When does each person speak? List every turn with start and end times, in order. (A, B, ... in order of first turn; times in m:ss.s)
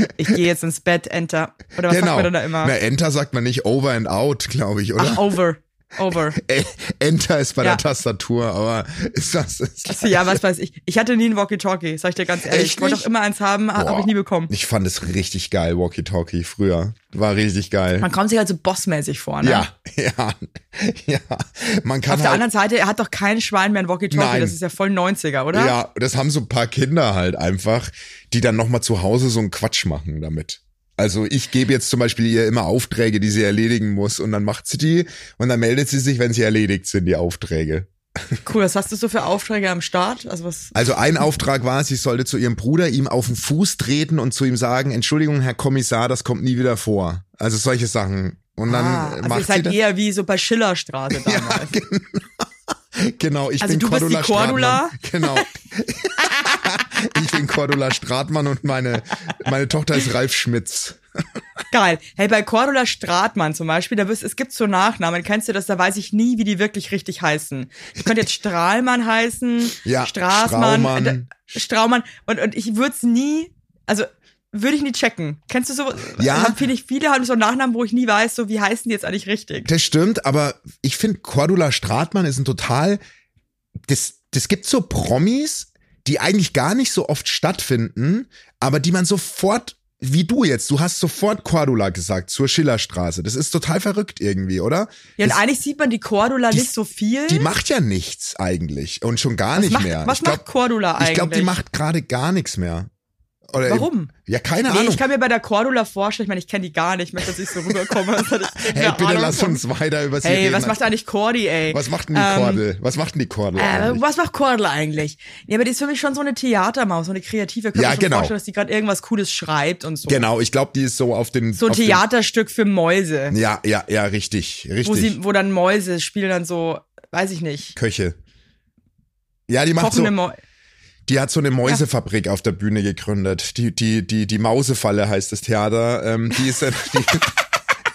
0:00.1-0:02.7 A
0:01.8-0:05.4 B
0:05.0-0:06.4 A
0:06.3-0:10.4 B
0:09.9-0:14.5 A
0:12.4-0:13.1 B
0:13.8-0:18.1 B
0:18.0-0:19.6 A
0:19.4-0:22.4 B
0:22.1-0:25.8 A
0:24.1-0:24.6 B
0:25.5-0:38.4 B
0:38.4-0:40.7 A
0:40.7-0:49.8 B
0:48.7-0:51.8 A
0:51.2-1:01.0 B
0:53.6-0:55.4 A
1:01.7-1:19.7 A
1:09.8-1:11.4 B
1:16.2-1:16.6 B
1:19.6-1:23.0 B
1:23.8-1:35.4 B
1:35.2-1:37.5 A
1:37.3-1:40.4 B
1:39.6-1:41.6 A
1:41.0-1:42.9 B
1:43.5-1:45.0 B
1:43.6-1:44.1 A
1:44.7-1:49.6 A
1:47.7-1:50.8 B
1:50.2-1:52.6 A
1:51.7-1:54.0 B
1:53.6-2:00.3 A
1:57.7-1:58.3 B
2:00.1-2:02.1 B
2:01.6-2:03.4 A
2:03.3-2:05.2 B
2:04.8-2:07.8 A
2:07.8-2:08.2 B
2:09.5-2:10.1 B
2:09.8-2:10.4 A
2:11.1-2:17.4 B